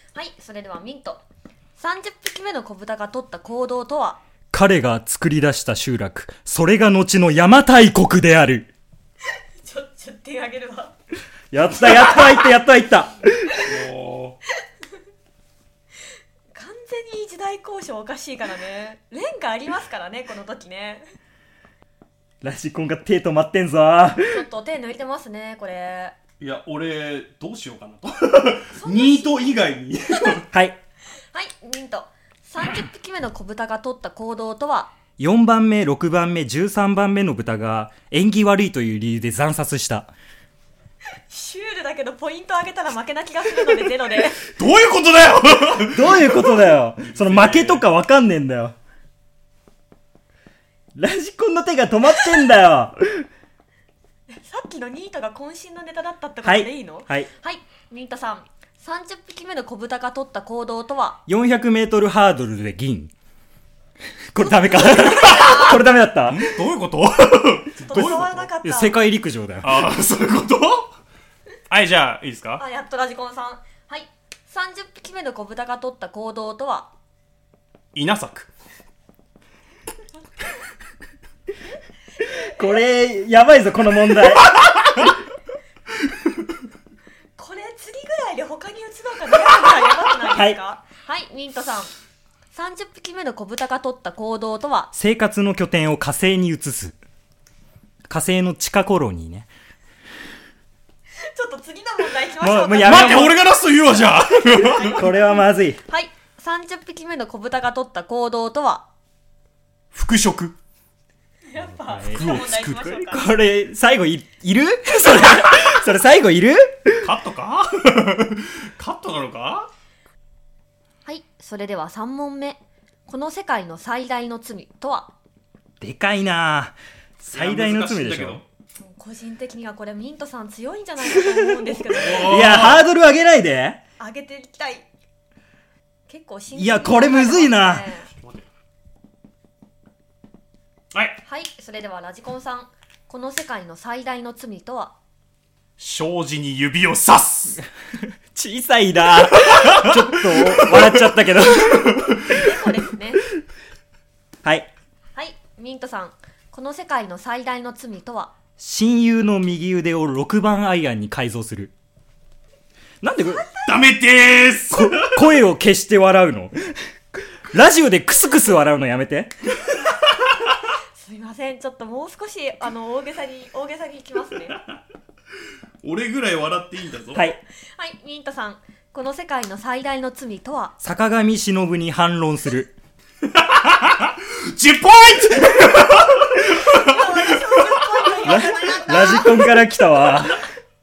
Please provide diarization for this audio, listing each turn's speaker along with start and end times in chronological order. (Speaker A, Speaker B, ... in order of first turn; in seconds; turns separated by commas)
Speaker A: 0.1-1.2, Speaker A: 1.8-4.2, Speaker B: 4.5-8.7, Speaker A: 9.6-10.9, Speaker B: 11.5-13.6, Speaker C: 13.6-14.4, Speaker A: 16.5-21.0, Speaker B: 22.4-24.4, Speaker A: 24.2-26.1, Speaker C: 26.4-30.5, Speaker A: 28.7-29.6, Speaker B: 30.5-30.8, Speaker A: 31.3-35.0, Speaker B: 35.2-40.1, Speaker A: 41.3-44.4, Speaker C: 44.5-47.9, Speaker B: 45.8-48.8, Speaker B: 51.0-53.3, Speaker A: 54.3-61.2, Speaker B: 56.4-57.3, Speaker B: 61.3-63.1, Speaker B: 64.3-66.6, Speaker A: 64.5-65.8, Speaker C: 65.2-65.6, Speaker C: 66.3-68.5, Speaker A: 67.8-69.0, Speaker B: 68.0-69.9, Speaker C: 69.6-70.9, Speaker C: 71.7-72.6, Speaker A: 72.6-76.9, Speaker C: 77.9-78.5, Speaker B: 82.2-84.5, Speaker A: 87.4-91.9, Speaker B: 90.3-90.6, Speaker A: 92.5-94.9, Speaker B: 94.9-97.0, Speaker B: 98.1-99.5, Speaker A: 101.2-103.4, Speaker B: 102.4-103.4, Speaker C: 102.8-105.0, Speaker A: 104.4-105.3, Speaker B: 104.9-105.8, Speaker A: 105.9-108.9, Speaker C: 109.9-110.6, Speaker A: 111.5-113.3, Speaker B: 111.6-117.1, Speaker C: 112.1-113.0, Speaker C: 117.0-119.7, Speaker A: 121.1-125.1, Speaker B: 125.8-128.4, Speaker C: 127.3-128.4, Speaker A: 128.8-132.4, Speaker B: 131.1-133.8, Speaker C: 131.9-132.9, Speaker A: 134.0-134.9, Speaker A: 136.1-138.1, Speaker B: 136.6-137.9, Speaker C: 138.1-138.5, Speaker C: 140.9-141.2, Speaker A: 141.2-144.9, Speaker C: 145.8-147.6, Speaker B: 148.0-152.2, Speaker C: 149.4-151.0, Speaker C: 151.7-152.3, Speaker A: 152.3-153.2, Speaker B: 154.4-154.7, Speaker A: 155.2-158.3, Speaker B: 158.6-161.7, Speaker B: 163.0-163.5, Speaker A: 163.3-163.7, Speaker C: 163.7-165.2, Speaker B: 164.7-166.9, Speaker B: 167.5-169.3, Speaker A: 171.0-174.6, Speaker C: 175.8-177.3, Speaker A: 177.8-180.8, Speaker B: 180.8-182.7, Speaker C: 183.3-188.1, Speaker A: 186.5-189.6, Speaker B: 188.2-190.4